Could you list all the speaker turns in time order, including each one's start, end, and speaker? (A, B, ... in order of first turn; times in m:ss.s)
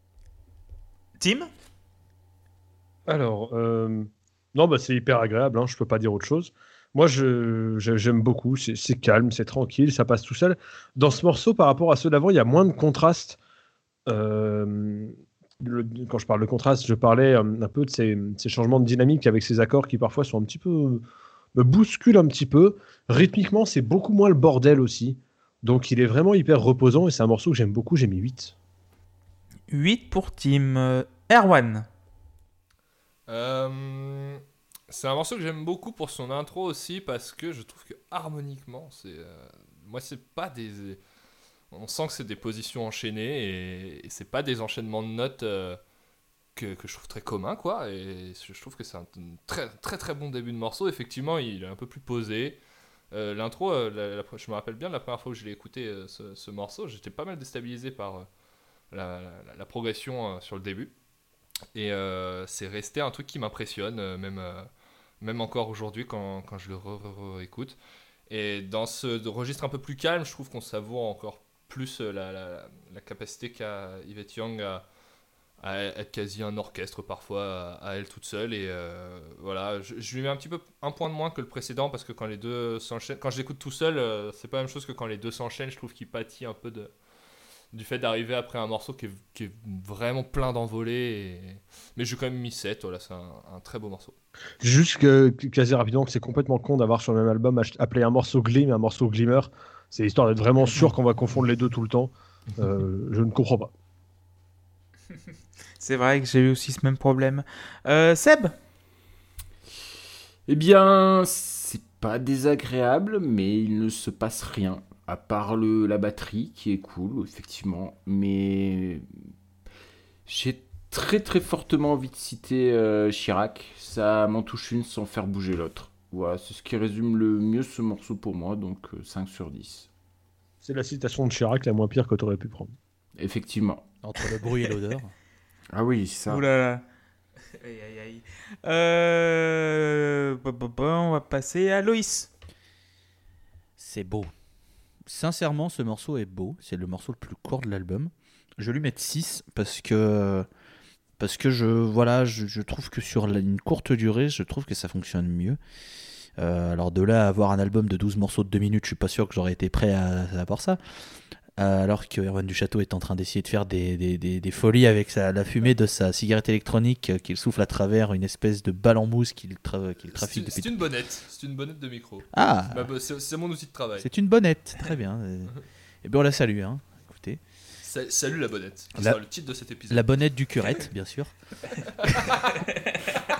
0:01.2-0:01.5 A
0:03.1-0:13.4 B
0:14.1-0:21.0 B
0:21.6-0:28.5 B
0:29.7-0:31.9 A
0:33.3-0:41.0 C
0:41.7-0:45.8 C
0:46.6-0:52.6 C
0:53.1-0:58.3 C
0:58.9-1:00.9 C
1:01.7-1:04.7 C
1:05.2-1:07.8 C
1:08.3-1:14.8 C
1:15.6-1:26.9 C
1:27.7-1:34.2 C
1:34.6-1:43.7 B
1:45.8-1:48.5 A
1:50.5-1:59.1 D
2:00.3-2:09.9 D
2:10.6-2:12.7 B
2:13.2-2:13.8 D
2:14.0-2:15.1 E
2:15.7-2:16.4 D
2:16.3-2:16.8 A
2:17.6-2:22.3 A
2:23.8-2:24.3 E
2:25.1-2:30.5 E
2:31.2-2:35.6 E
2:36.4-2:40.8 E
2:41.6-2:50.8 E
2:50.1-2:54.1 C
2:52.3-2:52.9 E
2:54.0-2:57.4 E
2:57.8-3:00.2 C
2:59.9-3:01.3 E
3:01.8-3:02.6 C